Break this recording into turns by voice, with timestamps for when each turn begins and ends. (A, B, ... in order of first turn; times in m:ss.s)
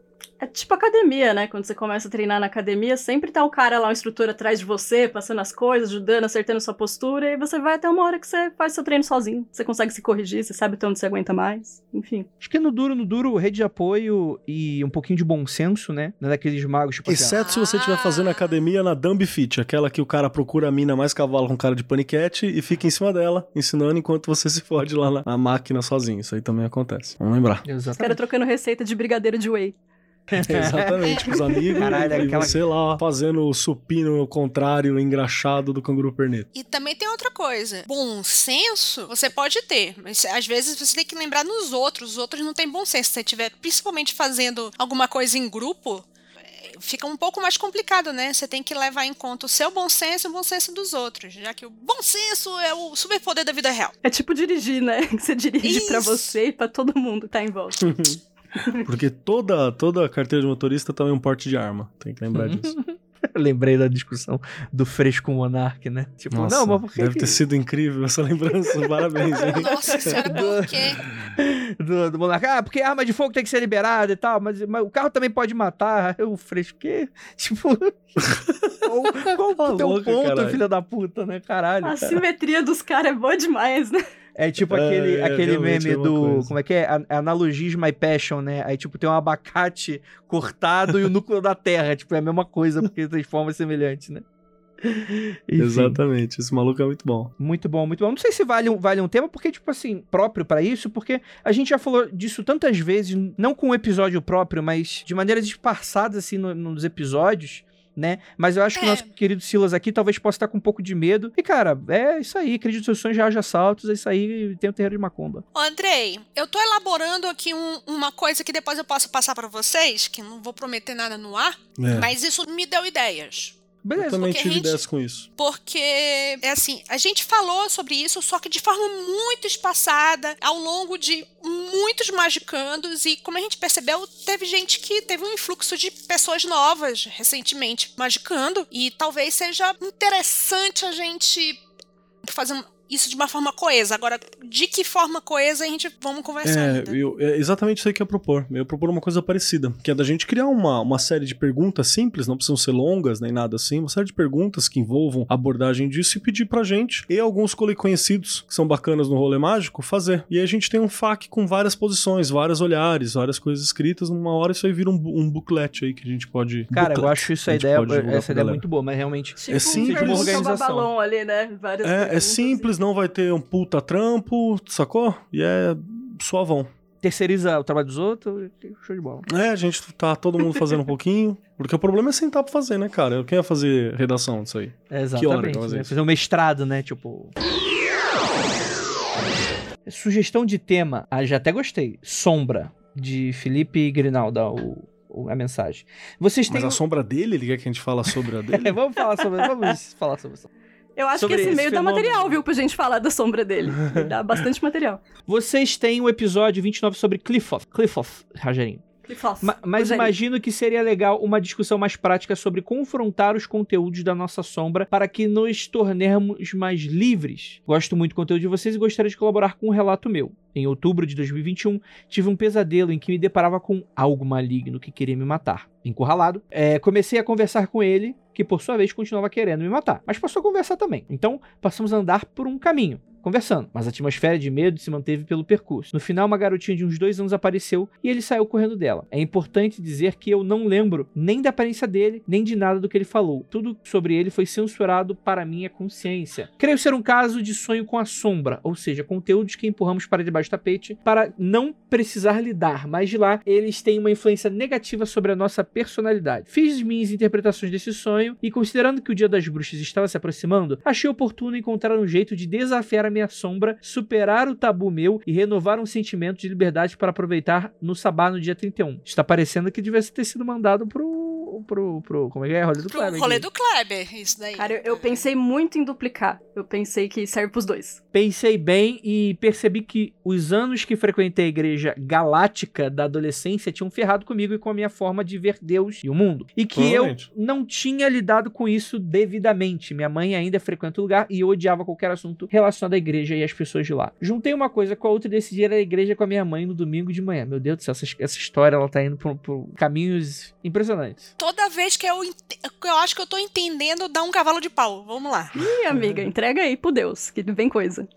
0:00.4-0:12.3 A
0:12.4-0:17.4 B
0:17.0-0:27.6 C
0:17.3-0:18.6 D
0:27.6-0:28.2 B
0:28.0-0:29.7 A
0:30.3-0:36.5 C
0:30.3-0:32.7 B
0:31.5-0:31.9 A
0:36.5-0:46.1 D
0:46.6-0:53.9 D
0:54.0-0:58.0 A
0:55.6-0:56.4 D
0:57.8-0:58.2 C
0:58.6-0:58.8 A
0:58.7-1:02.8 C
1:02.4-1:07.4 B
1:06.3-1:10.2 C
1:09.3-1:10.8 B
1:09.3-1:11.0 D
1:11.4-1:18.2 B
1:18.2-1:20.6 C
1:18.8-1:22.1 B
1:21.8-1:24.0 A
1:24.4-1:34.2 B
1:24.6-1:26.5 C
1:34.8-1:36.0 B
1:35.6-1:37.3 C
1:37.4-1:55.4 B
1:48.7-1:49.1 D
1:55.5-2:04.8 D
2:01.8-2:02.1 C
2:03.8-2:04.2 B
2:03.9-2:05.3 C
2:05.4-2:21.6 D
2:22.2-2:27.0 D
2:26.4-2:48.6 C
2:46.7-2:50.9 B
2:49.4-2:52.7 A
2:49.5-2:50.4 C
2:51.8-2:56.7 C
2:57.0-2:59.3 B
2:59.3-3:05.9 C
3:04.9-3:07.3 B
3:09.8-3:16.8 B
3:16.5-3:18.7 C
3:18.6-3:20.5 B
3:21.0-3:25.0 A
3:21.1-3:22.4 B
3:21.2-3:21.6 C
3:25.3-3:28.8 B
3:29.1-3:30.1 A
3:29.4-4:33.4 B
4:32.9-4:35.2 D
4:34.6-4:38.0 A
4:38.1-5:01.3 B
4:46.7-4:47.3 C
5:01.4-5:05.5 D
5:05.5-5:08.1 A
5:05.9-5:06.3 B